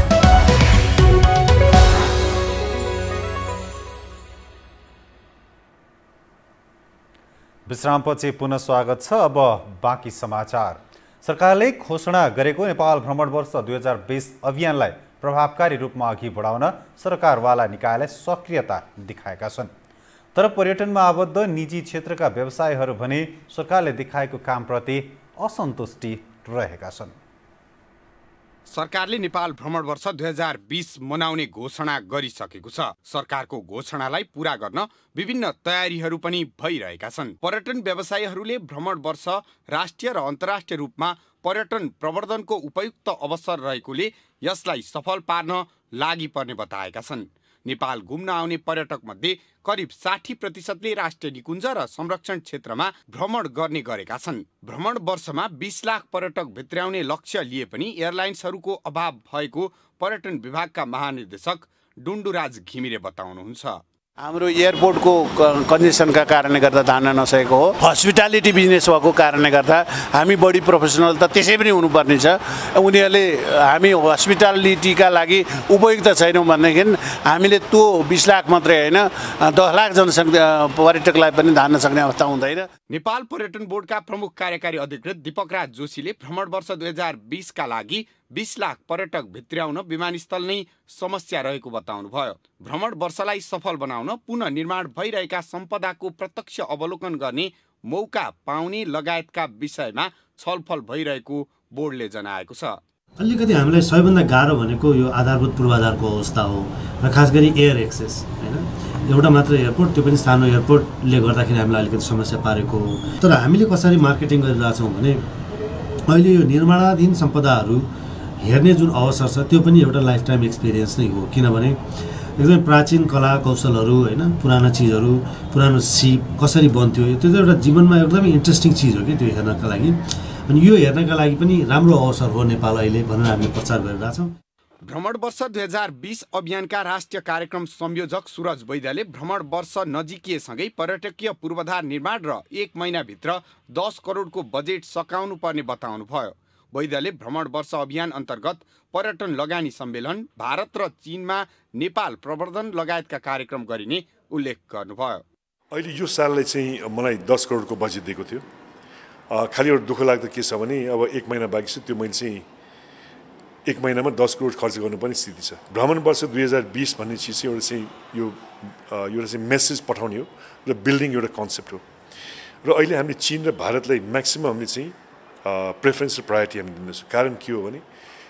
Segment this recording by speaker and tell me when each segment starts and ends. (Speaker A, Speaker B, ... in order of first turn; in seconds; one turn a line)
Speaker A: 7.7-19.7
Speaker A: 20.4-27.1
Speaker B: 28.7-63.8
Speaker C: 64.2-82.7
Speaker B: 82.9-102.8
Speaker D: 103.2-115.3
Speaker D: 116.1-117.9
Speaker D: 118.4-134.4
Speaker B: 134.9-155.2
Speaker E: 155.7-158.4
Speaker E: 159.3-162.5
Speaker E: 163.7-171.8
Speaker E: 172.6-177.8